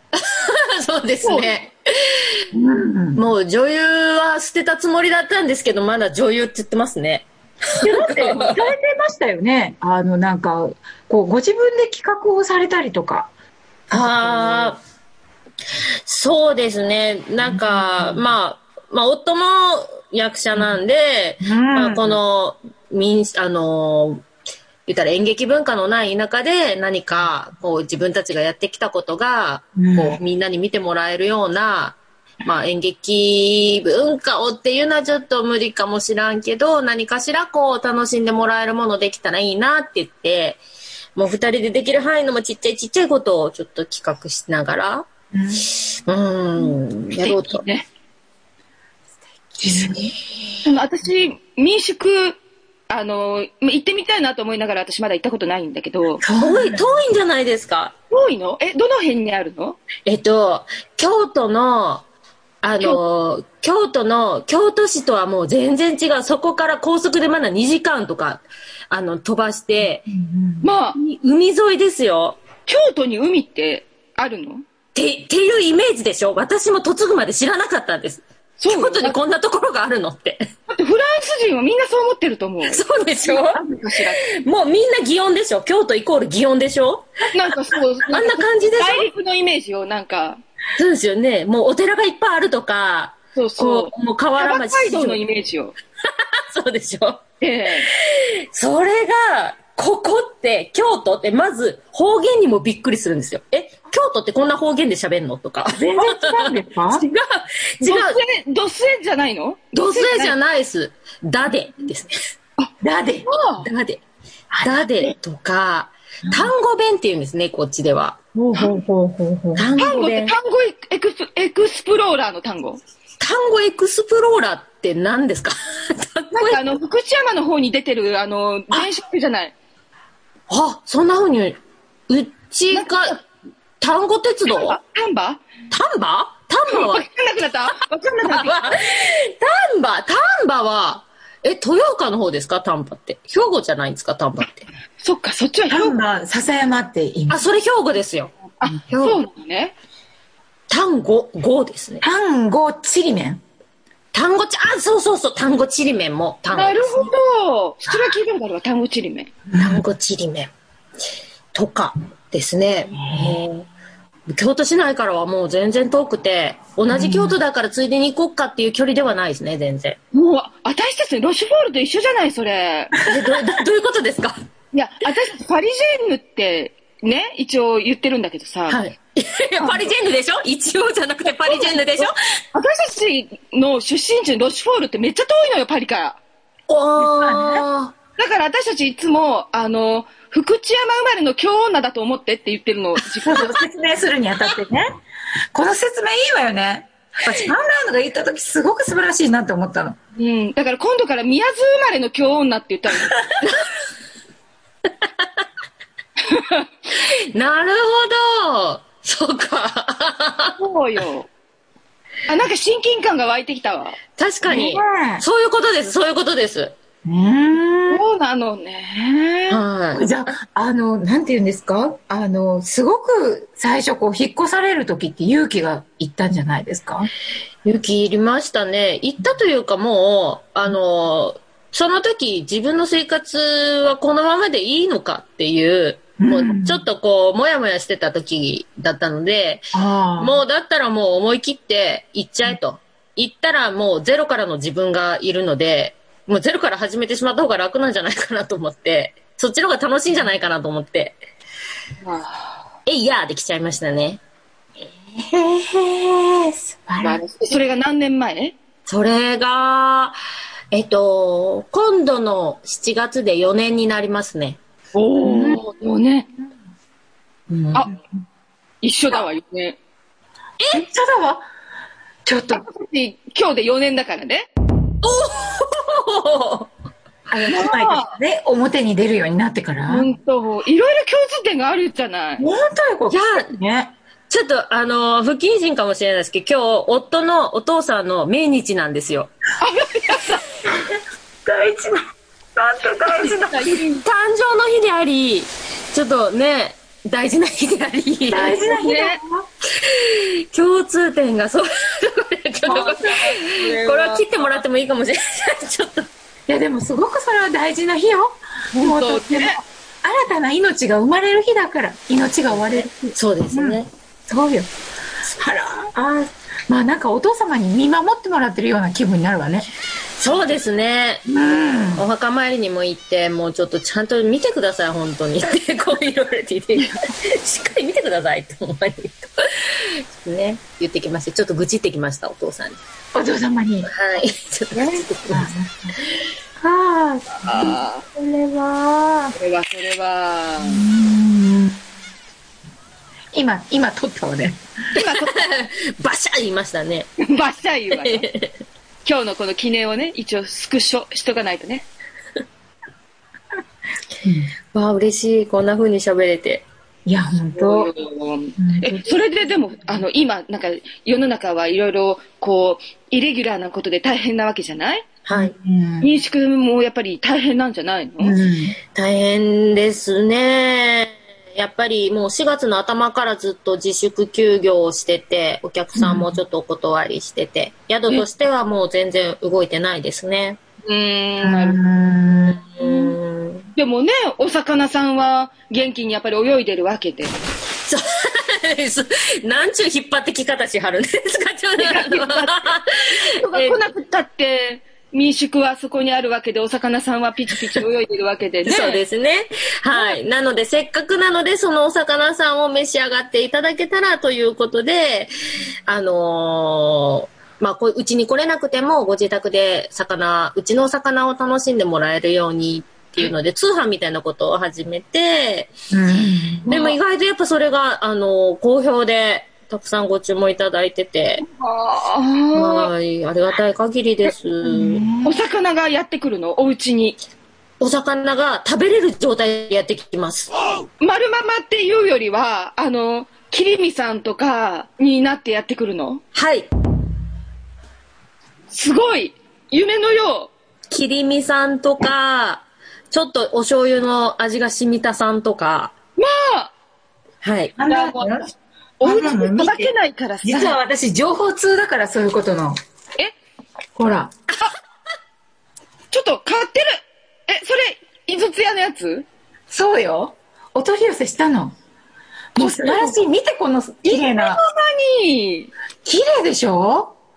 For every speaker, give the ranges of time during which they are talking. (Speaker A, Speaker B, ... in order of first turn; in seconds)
Speaker A: 0.2-2.4, 3.1-8.7, 13.9-14.8, 16.1-24.2, 24.9-40.6, 41.1-45.1, 45.8-47.6, 56.4-57.9, 60.0-62.0, 62.6-70.0, 70.9-72.4, 74.9-80.4, 82.6-83.6, 84.2-87.3, 88.0-89.1, 90.8-95.2, 96.5-97.2, 98.0-108.2, 109.7-112.1, 113.6-114.0, 114.6-118.2, 119.5-120.3, 123.2-126.6, 130.5-131.6, 132.1-133.2, 133.8-134.8, 135.7-137.1, 138.2-144.7, 147.3-148.3, 148.9-149.2, 150.7-152.0, 154.1-157.1, 159.6-160.5, 161.5-163.7, 164.3-170.0, 173.0-174.3, 178.7-182.1, 186.7-187.9, 193.2-193.6, 205.0-205.4, 207.3-210.5, 214.2-216.7, 219.5-220.1, 227.6-251.2, 252.8-254.2, 258.9-260.2, 260.7-264.6, 275.0-276.7, 283.1-283.5, 284.3-289.3, 293.0-298.7, 299.8-306.1, 312.5-313.9, 320.2-321.3, 321.9-332.8, 333.9-335.5, 344.9-347.1, 348.0-348.6, 354.7-356.6, 365.2-365.5, 368.9-380.6, 382.7-383.7, 387.9-392.9, 393.4-393.8, 398.6-405.3, 405.9-415.7, 416.6-421.4, 422.5-425.0, 427.8-430.5, 436.3-436.7, 440.9-445.9, 447.4-447.7
Speaker B: 1.2-1.6, 46.6-47.9, 50.6-56.2, 58.1-59.8, 70.6-71.0, 72.7-74.6, 78.6-79.2, 80.7-84.2, 87.3-90.4, 93.3-95.8, 97.4-97.9, 107.8-110.3, 113.2-113.7, 119.8-122.8, 126.3-129.5, 132.7-133.2, 134.5-135.4, 136.7-138.7, 145.0-145.9, 148.6-149.7, 156.5-159.3, 170.1-173.0, 174.7-178.8, 179.6-179.9, 181.4-186.2, 188.2-193.4, 200.2-203.5, 206.3-206.7, 210.6-211.3, 212.3-214.0, 217.9-219.6, 252.0-252.6, 257.0-258.5, 264.9-266.3, 268.8-269.8, 272.5-274.5, 277.5-278.1, 279.9-282.4, 289.6-290.5, 293.1-294.0, 298.6-299.2, 302.6-304.3, 308.7-309.6, 334.7-335.1, 337.4-338.0, 339.3-340.8, 344.9-345.5, 347.2-348.2, 349.0-351.9, 357.5-365.1, 366.0-368.4, 380.9-381.8, 382.8-383.1, 383.7-387.3, 391.8-399.0, 399.9-400.2, 416.7-417.0, 421.4-422.9, 425.2-427.2, 431.0-436.2, 438.7-440.5, 446.2-446.7, 447.9-448.5, 449.0-450.8, 456.1-459.2, 462.6-463.1, 464.1-465.7
Speaker C: 2.5-3.2, 7.8-13.3, 13.9-14.8, 17.4-18.3, 21.4-22.2, 29.8-30.2, 45.3-45.7, 49.6-50.1, 56.2-56.9, 70.0-70.7, 105.7-107.0, 112.8-113.3, 114.5-115.1, 116.3-116.5, 118.3-119.7, 145.7-147.4, 152.0-153.4, 159.5-159.8, 163.0-163.4, 166.9-167.4, 187.0-187.7, 193.2-194.8, 195.5-200.0, 214.4-215.2, 217.0-218.0, 219.9-227.1, 236.2-236.8, 239.7-240.4, 255.1-257.5, 265.2-265.6, 267.5-268.0, 270.7-271.5, 272.2-272.6, 277.3-280.1, 282.4-283.9, 291.4-292.0, 292.6-293.4, 298.3-299.5, 302.6-303.2, 306.5-314.7, 315.4-316.0, 316.7-319.7, 321.3-322.1, 333.1-333.9, 335.3-335.9, 336.6-339.3, 340.6-341.8, 343.3-344.6, 357.1-357.9, 358.6-359.2, 365.3-366.1, 368.2-368.8, 375.9-376.4, 381.4-382.6, 415.9-416.7, 424.6-425.4, 447.8-448.5, 449.0-452.8, 453.9-454.3, 459.7-461.7, 462.6-464.6, 466.0-467.1